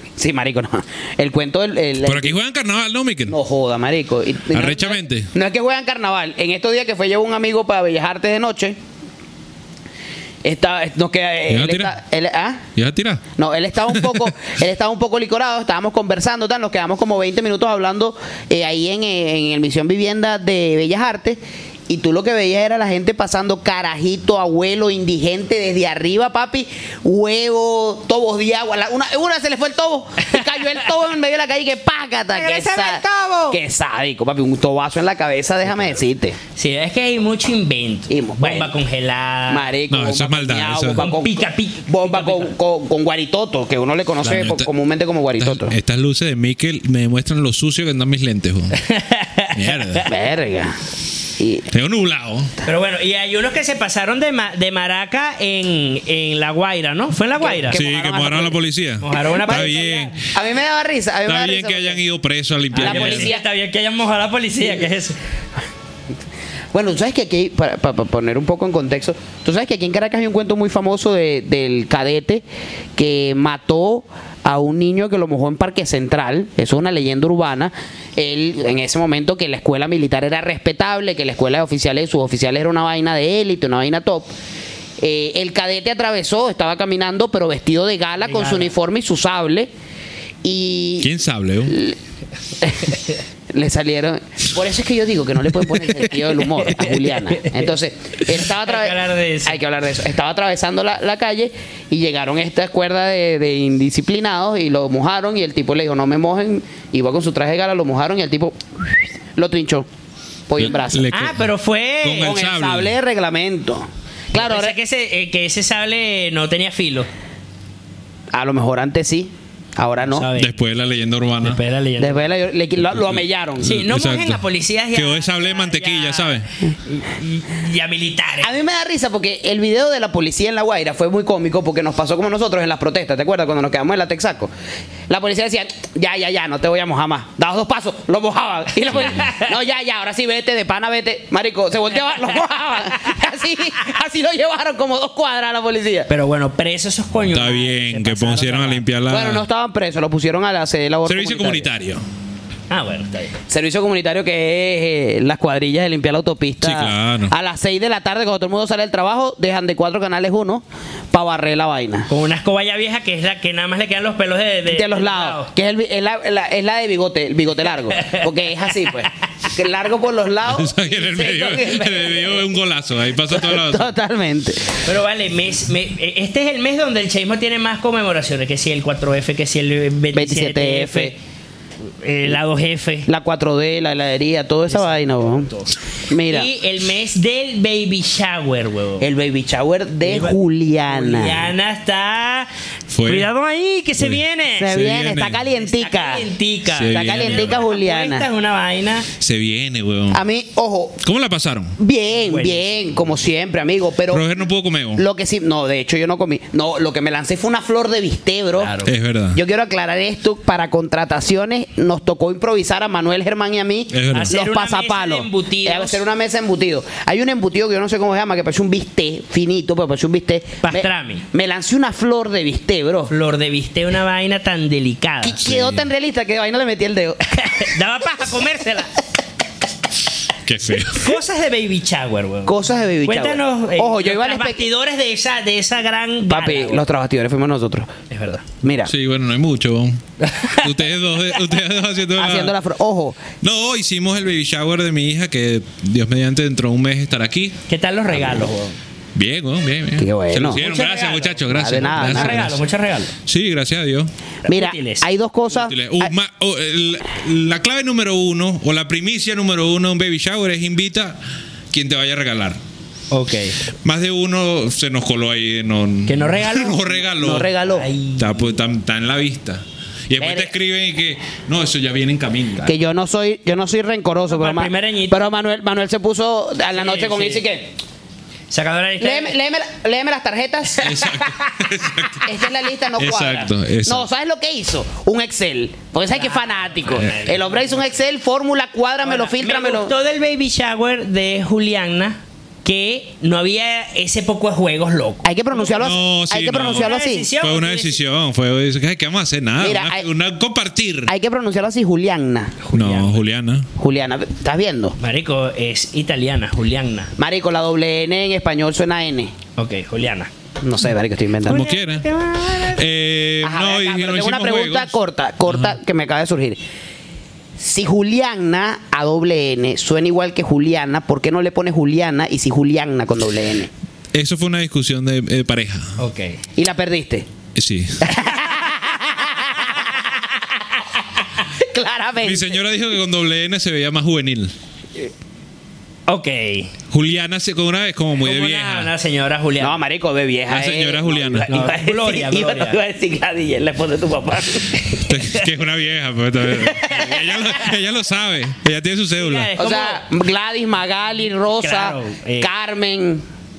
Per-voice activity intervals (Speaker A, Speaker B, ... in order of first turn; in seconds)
Speaker A: 0.2-2.4, 3.3-8.8, 10.4-12.6, 13.4-36.4, 38.1-38.7, 39.5-45.7, 50.1-50.8, 51.4-51.7, 57.4-58.6, 60.3-62.0, 62.8-63.4, 66.7-72.4, 73.0-84.3, 85.0-89.7, 90.4-91.1, 91.7-92.0, 92.6-93.0, 93.5-109.9, 110.5-111.1, 112.2-114.8, 118.3-120.3, 122.0-123.8, 128.4-134.5, 135.1-146.1, 149.1-151.7, 153.5-162.1, 164.7-172.4, 173.3-174.8, 180.1-181.2, 183.1-185.5, 186.1-186.5, 189.0-191.5, 194.6-196.3, 196.9-198.3, 200.1-201.0, 201.8-204.2, 205.0-208.8, 209.3-223.1, 225.2-227.2, 232.5-234.7, 236.3-237.9, 238.6-238.9, 242.2-243.2, 250.0-250.6, 251.5-252.5, 254.5-256.1, 267.2-267.9, 270.2-270.5, 272.6-277.7, 279.0-281.3, 282.2-289.9, 295.2-297.3, 299.6-300.1, 301.1-302.6, 303.8-305.0, 307.2-309.3, 310.6-311.6, 313.4-316.6, 317.6-323.7, 326.6-327.3, 328.0-332.6, 339.6-345.1, 346.6-347.6, 349.6-353.2
Speaker B: 2.0-3.4, 4.5-5.3, 11.5-11.9, 12.8-13.2, 13.9-14.3, 39.9-41.1, 44.2-44.7, 45.4-48.8, 49.5-50.1, 51.7-52.5, 57.7-60.2, 61.3-63.3, 91.0-91.8, 110.6-111.5, 112.0-113.0, 120.4-121.6, 122.9-124.4, 124.9-126.5, 147.3-149.5, 151.1-152.0, 156.6-157.3, 170.4-173.9, 192.9-193.3, 194.0-195.4, 196.7-197.7, 199.2-200.2, 201.0-201.8, 204.1-205.0, 208.8-209.4, 213.9-214.3, 225.4-225.8, 230.4-231.2, 238.9-242.6, 243.4-247.6, 249.2-252.6, 253.3-254.1, 255.5-261.2, 261.7-262.6, 263.8-267.5, 268.2-272.7, 280.8-282.3, 283.0-284.1, 295.7-301.1, 302.7-303.7, 311.4-312.1, 312.6-314.9, 324.1-326.0, 327.6-328.1, 332.2-334.5, 336.9-338.9, 340.5-341.5, 345.0-349.5
Speaker C: 32.3-33.6, 36.6-39.7, 40.9-42.5, 48.7-50.1, 52.6-57.8, 59.0-60.2, 62.7-65.2, 88.2-88.7, 96.6-97.6, 98.5-99.6, 111.1-112.3, 114.3-117.1, 120.0-120.5, 121.4-122.3, 123.6-128.6, 139.0-139.5, 146.1-148.8, 152.7-153.3, 162.1-165.5, 167.9-168.2, 174.8-181.2, 182.0-183.1, 184.7-185.7, 186.2-189.1, 190.0-192.5, 193.1-194.8, 195.5-199.1, 202.1-202.8, 208.6-208.9, 214.1-216.0, 220.6-221.2, 223.1-225.5, 227.3-229.0, 230.9-236.8, 238.1-238.4, 240.2-240.7, 247.7-248.8, 250.6-253.2, 254.4-255.1, 263.1-263.6, 266.1-266.9, 267.6-268.5, 274.3-275.2, 276.7-277.5, 278.5-279.4, 286.1-287.9, 289.0-295.8, 296.7-298.0, 302.6-303.2, 305.0-307.1, 309.6-310.3, 311.5-312.8, 326.0-326.4, 329.6-329.9, 336.1-336.7, 338.2-339.8, 341.5-342.8, 349.2-350.0, 351.6-352.5